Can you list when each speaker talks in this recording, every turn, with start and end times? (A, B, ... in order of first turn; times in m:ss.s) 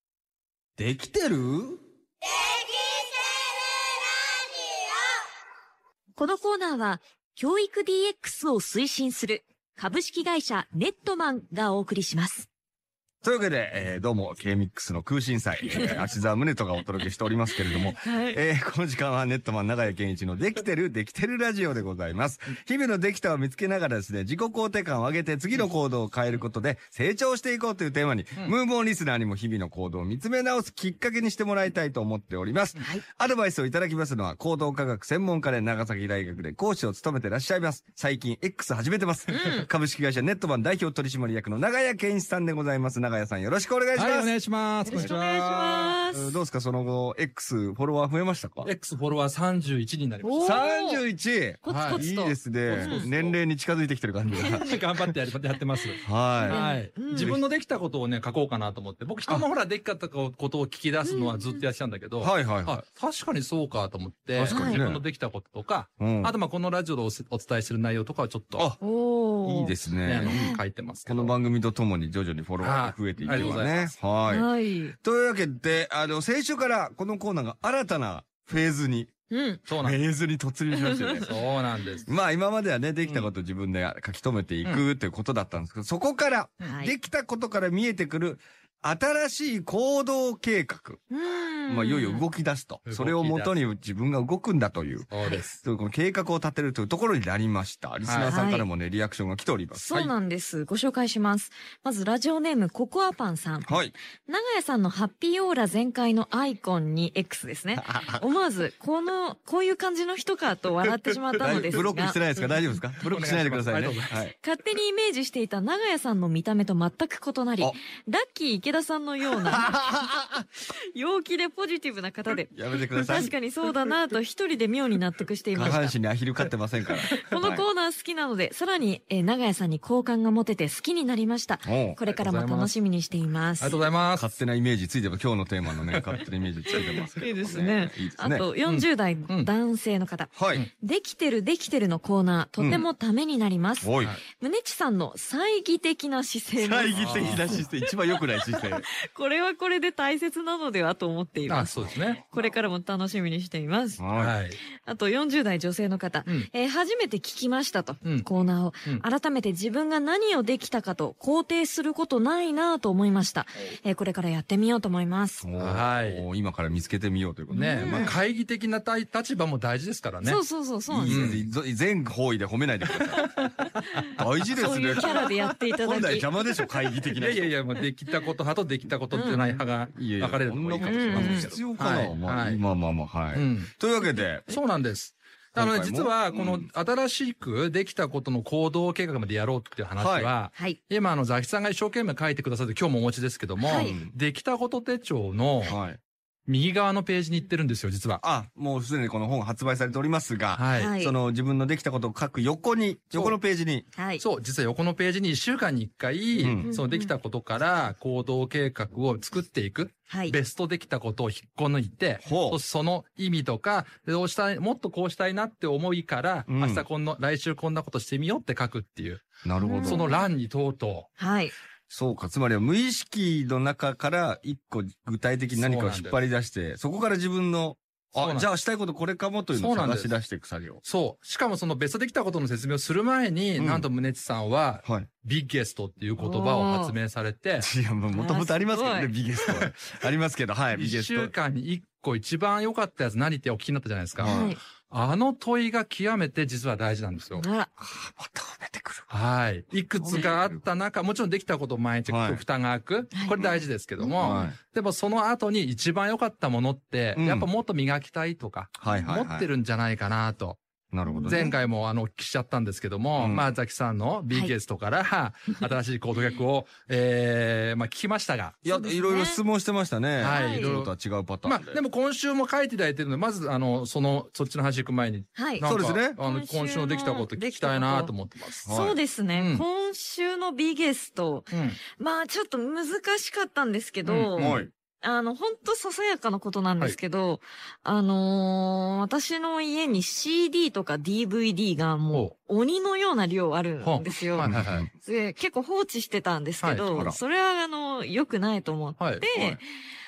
0:00.8-0:01.8 A
0:06.2-0:12.5 B
0:13.2-0:44.4 A
0:17.9-0:18.4 B
0:32.8-0:33.0 B
0:39.3-0:39.7 B
0:43.9-0:46.0 C
0:44.8-0:46.3 B
0:46.1-0:48.7 A
0:48.6-0:50.6 C
0:50.2-0:51.0 B
0:50.4-0:55.1 A
0:51.6-0:53.1 B
0:51.7-0:52.0 C
0:52.6-0:53.4 C
0:54.3-0:54.8 B
0:54.4-1:08.7 C
0:56.0-0:56.6 A
0:56.4-0:57.4 B
0:57.2-0:57.4 A
1:01.0-1:01.6 B
1:02.2-1:02.8 A
1:04.3-1:05.0 A
1:04.5-1:04.8 B
1:06.0-1:06.3 A
1:08.8-1:10.6 B
1:09.4-1:10.5 A
1:10.0-1:11.4 C
1:11.0-1:19.1 A
1:12.6-1:14.0 C
1:13.2-1:13.6 B
1:14.3-1:15.0 B
1:19.3-1:19.6 B
1:19.7-1:20.0 C
1:19.8-1:21.4 A
1:21.2-1:22.1 C
1:22.0-1:31.0 A
1:23.0-1:23.3 C
1:26.6-1:26.9 B
1:31.1-1:32.2 B
1:31.7-1:39.8 A
1:32.8-1:33.5 C
1:35.1-1:35.6 C
1:38.0-1:38.4 C
1:38.3-1:38.7 B
1:39.7-1:43.7 B
1:43.6-1:43.9 A
1:44.3-1:52.2 B
1:47.8-1:48.2 A
1:51.4-1:54.3 A
1:51.4-1:51.8 C
1:53.0-1:54.2 C
1:54.4-1:59.7 B
1:59.5-2:00.4 A
2:00.9-2:02.5 B
2:02.5-2:03.3 A
2:03.1-2:06.0 B
2:05.5-2:07.6 A
2:07.2-2:13.8 B
2:11.6-2:12.0 A
2:12.0-2:12.7 C
2:13.6-2:14.3 C
2:14.1-2:18.4 A
2:17.1-2:27.9 B
2:18.6-2:19.5 C
2:20.3-2:20.7 A
2:22.6-2:22.9 A
2:23.8-2:24.1 A
2:26.6-2:28.8 A
2:26.9-2:27.6 C
2:28.4-2:34.0 B
2:31.5-2:32.2 C
2:34.0-2:34.3 A
2:34.1-2:34.6 C
2:34.8-2:45.4 B
2:38.0-2:38.3 C
2:45.4-2:48.2 A
2:45.6-2:46.2 C
2:47.5-2:48.1 B
2:47.5-2:50.4 C
2:50.2-2:51.3 B
2:50.9-2:53.4 A
2:51.0-2:51.4 C
2:52.9-2:53.2 C
2:53.2-2:56.3 B
2:54.2-2:57.5 A
2:54.9-2:55.5 C
2:57.1-3:02.6 C
2:59.1-2:59.6 B
2:59.9-3:04.6 A
3:00.8-3:01.6 B
3:03.3-3:03.7 C
3:04.5-3:15.8 C
3:05.6-3:06.7 A
3:10.0-3:10.3 A
3:13.6-3:14.0 B
3:13.7-3:14.1 A
3:15.6-3:16.0 A
3:16.5-3:18.2 C
3:18.2-3:23.8 A
3:20.5-3:20.9 C
3:20.8-3:21.1 B
3:24.0-3:24.2 B
3:24.2-3:41.1 C
3:26.4-3:26.7 A
3:26.6-3:27.1 B
3:30.1-3:30.4 B
3:32.2-3:32.6 A
3:36.5-3:36.8 A
3:39.4-3:40.1 A
3:39.6-3:40.2 B
3:41.2-3:41.5 B
3:41.9-3:50.8 A
3:45.5-3:46.2 C
3:48.2-3:48.5 C
3:49.5-3:50.1 C
3:50.8-3:57.7 C
3:53.6-3:53.8 A
3:56.2-3:56.9 B
3:57.6-4:01.3 A
3:58.1-3:59.1 B
3:59.4-3:59.7 C
4:00.7-4:07.5 C
4:04.2-4:04.5 A
4:04.2-4:04.6 B
4:07.4-4:07.7 B
4:07.8-4:09.1 A
4:09.1-4:20.6 C
4:10.0-4:10.6 A
4:12.1-4:12.4 A
4:13.4-4:13.6 A
4:14.0-4:14.5 B
4:14.2-4:14.6 A
4:17.1-4:17.5 A
4:18.8-4:19.5 A
4:20.9-4:21.5 A
4:21.0-4:21.5 B
4:21.2-4:28.6 C
4:23.2-4:23.4 A
4:28.6-4:31.8 A
4:28.7-4:29.4 B
4:30.2-4:38.7 C
4:30.3-4:30.8 B
4:35.4-4:35.6 B
4:35.6-4:36.2 A
4:36.2-4:38.1 B
4:38.6-4:39.0 A
4:38.7-4:54.5 B
4:39.3-4:39.6 C
4:41.5-4:41.8 C
4:44.0-4:44.6 C
4:44.4-4:44.7 A
4:53.8-4:54.9 C
4:54.4-4:54.9 A
4:55.0-4:59.6 B
4:56.6-4:56.9 C
4:56.9-4:57.2 A
4:59.0-4:59.2 C
4:59.3-4:59.6 A